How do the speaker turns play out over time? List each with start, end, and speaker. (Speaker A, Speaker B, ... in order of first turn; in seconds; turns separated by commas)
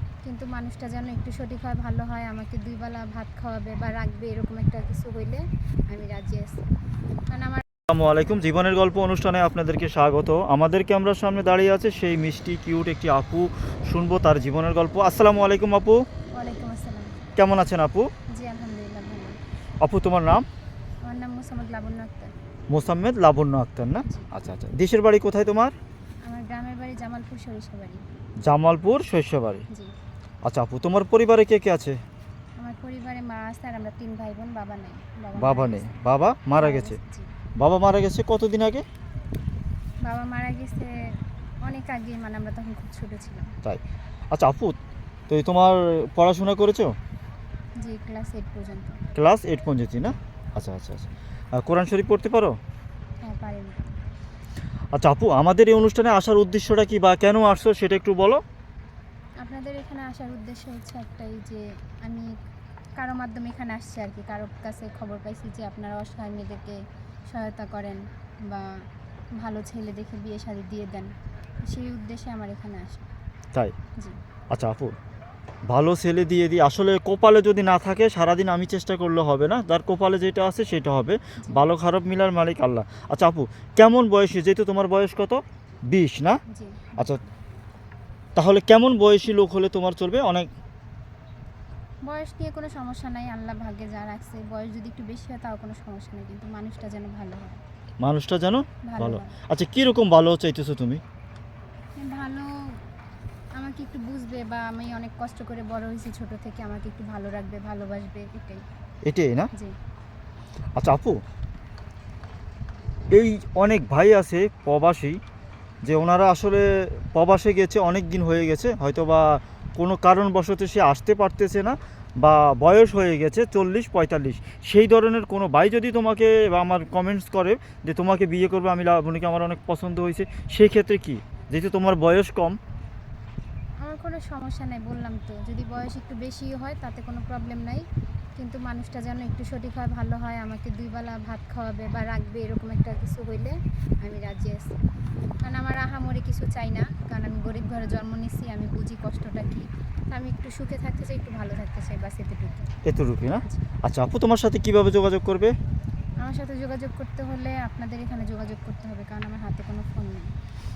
Speaker A: 0.2-6.6, Speaker A: 7.3-7.6, Speaker B: 7.9-16.0, Speaker A: 16.4-17.2, Speaker B: 17.4-18.1, Speaker A: 18.3-19.4, Speaker B: 19.8-20.4, Speaker A: 21.0-22.3, Speaker B: 22.7-25.8, Speaker A: 26.3-28.0, Speaker B: 28.4-29.7, Speaker B: 30.4-32.0, Speaker A: 32.6-36.0, Speaker B: 35.4-37.0, Speaker A: 36.6-37.3, Speaker B: 37.6-38.9, Speaker A: 40.0-43.5, Speaker B: 43.6-44.8, Speaker B: 45.3-47.0, Speaker A: 47.8-49.0, Speaker B: 49.1-52.6, Speaker A: 53.2-53.9, Speaker B: 55.0-58.4, Speaker A: 59.4-62.4, Speaker A: 63.0-68.9, Speaker A: 69.4-73.1, Speaker B: 74.5-75.0, Speaker B: 75.7-86.4, Speaker A: 86.5-87.1, Speaker B: 88.4-90.5, Speaker A: 92.0-97.6, Speaker B: 98.0-101.0, Speaker A: 98.8-99.3, Speaker A: 102.0-102.8, Speaker A: 103.5-108.6, Speaker B: 109.1-109.5, Speaker B: 110.8-111.2, Speaker B: 113.1-115.2, Speaker B: 115.8-132.6, Speaker A: 133.8-137.8, Speaker A: 138.4-144.7, Speaker A: 145.4-152.7, Speaker B: 152.8-155.5, Speaker A: 153.3-153.6, Speaker A: 156.2-160.3